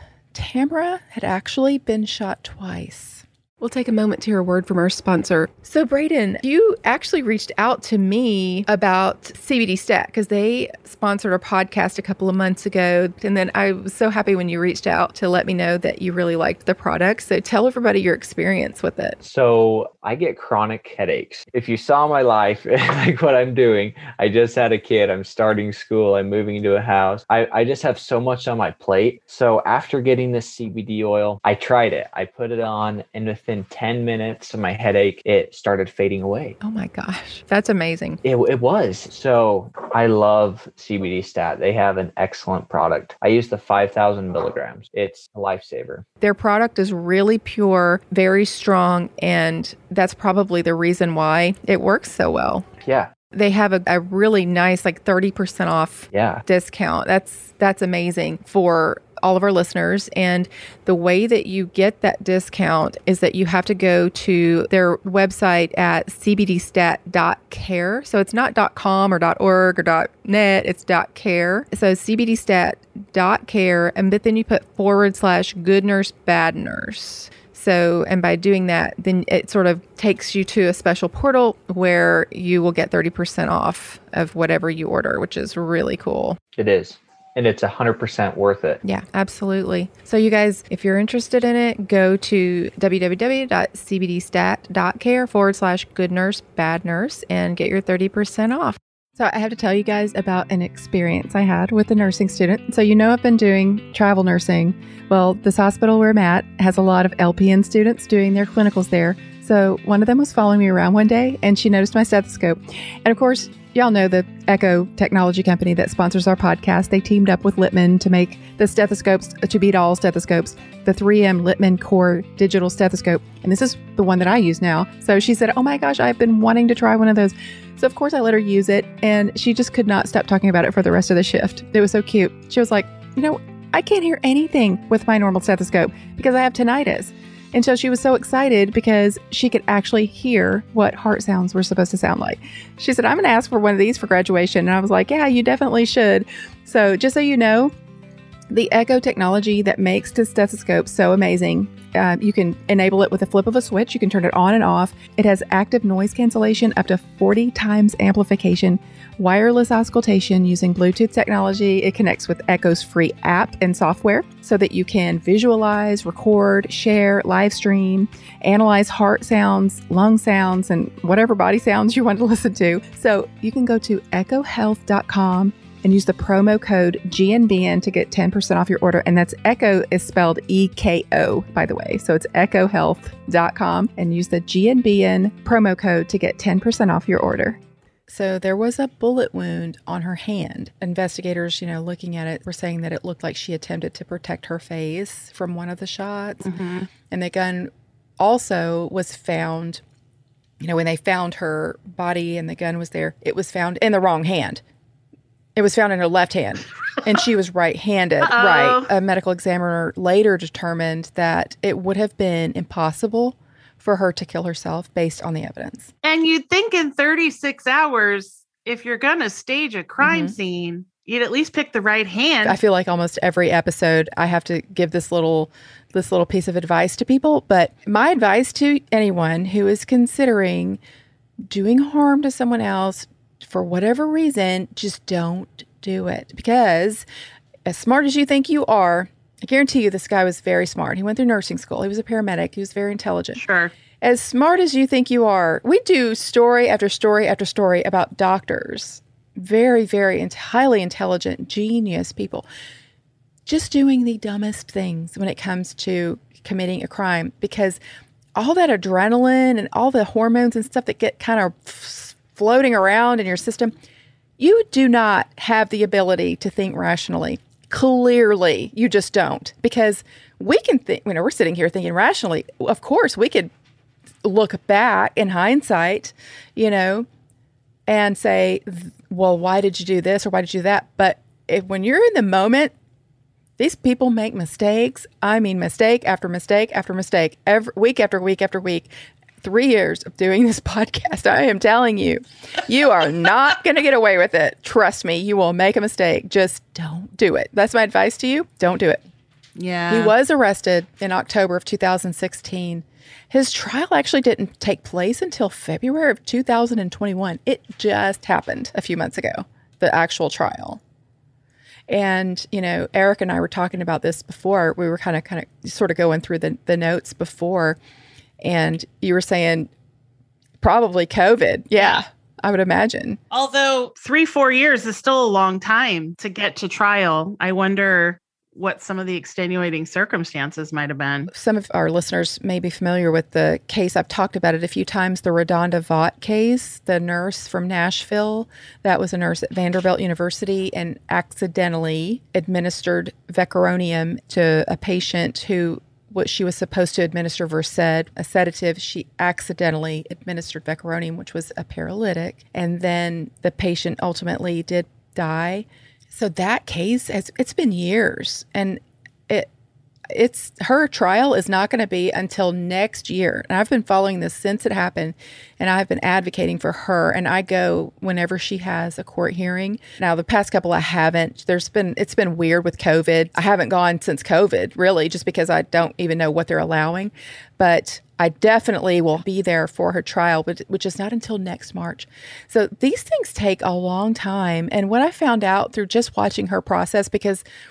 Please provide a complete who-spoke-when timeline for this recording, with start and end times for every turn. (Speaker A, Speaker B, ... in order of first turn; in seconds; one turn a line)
Speaker A: 0.3-19.2
Speaker B: 19.2-36.6
Speaker A: 36.6-38.2
Speaker B: 38.2-46.0
Speaker A: 46.2-52.6
Speaker B: 52.8-53.1
Speaker A: 53.3-86.4
Speaker B: 56.1-56.4
Speaker B: 86.6-88.8
Speaker A: 88.8-147.7
Speaker A: 148.5-196.5
Speaker C: 196.4-196.9
Speaker A: 197.1-199.8
Speaker A: 200.6-204.6
Speaker A: 205.6-215.9
Speaker C: 208.2-208.9
Speaker C: 216.0-222.6
Speaker A: 220.0-220.3
Speaker A: 222.4-230.8
Speaker A: 231.5-237.1
Speaker A: 237.7-243.4
Speaker C: 243.3-243.7
Speaker A: 244.0-252.4
Speaker A: 253.4-257.8
Speaker A: 258.4-263.7
Speaker A: 264.4-273.5
Speaker A: 274.2-277.1
Speaker A: 277.9-282.7
Speaker A: 283.6-288.9
Speaker A: 289.4-299.0
Speaker C: 299.6-300.1
Speaker A: 299.9-310.8
Speaker A: 311.9-317.8
Speaker A: 318.4-319.7
Speaker A: 320.6-323.2
Speaker C: 323.3-331.3
Speaker A: 331.3-359.5
Speaker A: 360.1-387.4